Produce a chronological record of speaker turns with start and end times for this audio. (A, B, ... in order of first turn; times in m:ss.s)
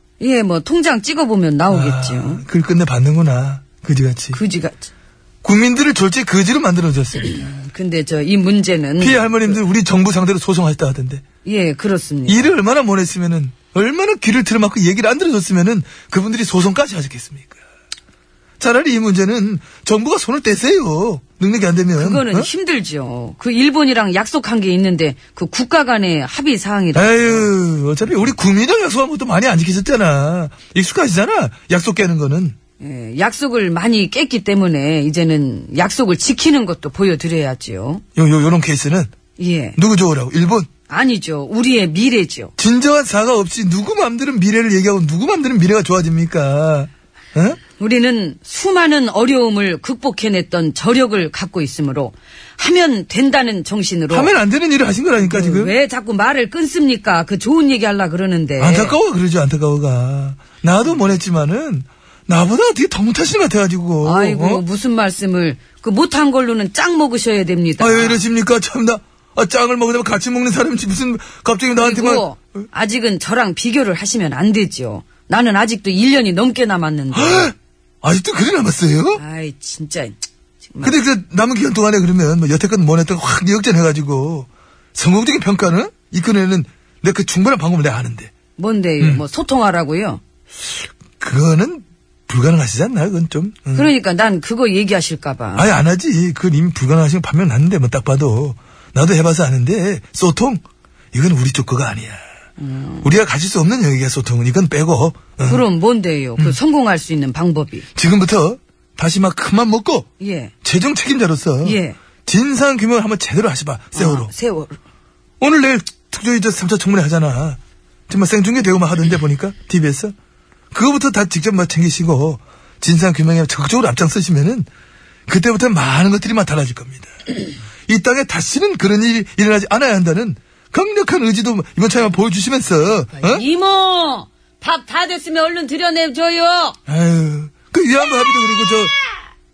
0:00.2-0:02.4 A
0:01.7-0:04.4 B
0:04.3-0:04.9 A
0:05.4-0:07.5 B
0:07.2-0:09.6 A
0:09.0-0:11.2 B
0:11.4-0:12.5 A
0:12.3-0:17.6 B
0:18.6-0:22.5 B
0:22.0-0:27.5 A
0:26.9-0:32.5 B
0:32.8-0:38.0 A
0:38.2-0:39.1 B
0:39.4-0:39.8 A
0:39.8-0:40.7 B
0:40.9-0:42.5 A
0:42.6-0:47.6 B
0:47.7-0:54.4 A
0:54.1-0:55.7 B
0:55.2-0:59.0 A
0:58.6-1:04.6 B
1:04.0-1:08.2 A
1:07.8-1:12.6 B
1:11.8-1:17.5 A
1:17.1-1:19.2 B
1:19.1-1:21.0 A
1:20.8-1:28.3 B
1:28.6-1:30.2 A
1:31.2-1:33.9 B
1:33.7-1:35.7 A
1:35.6-1:40.6 B
1:41.1-1:42.2 B
1:42.6-1:43.1 A
1:43.0-1:45.6 B
1:45.5-1:47.9 A
1:48.0-1:50.1 B
1:50.2-1:50.5 A
1:50.6-1:54.3 B
1:51.6-1:52.0 A
1:53.9-1:54.8 A
1:55.4-2:00.1 B
2:00.7-2:04.7 B
2:05.3-2:07.1 B
2:07.9-2:13.4 B
2:13.1-2:16.8 A
2:16.9-2:18.9 B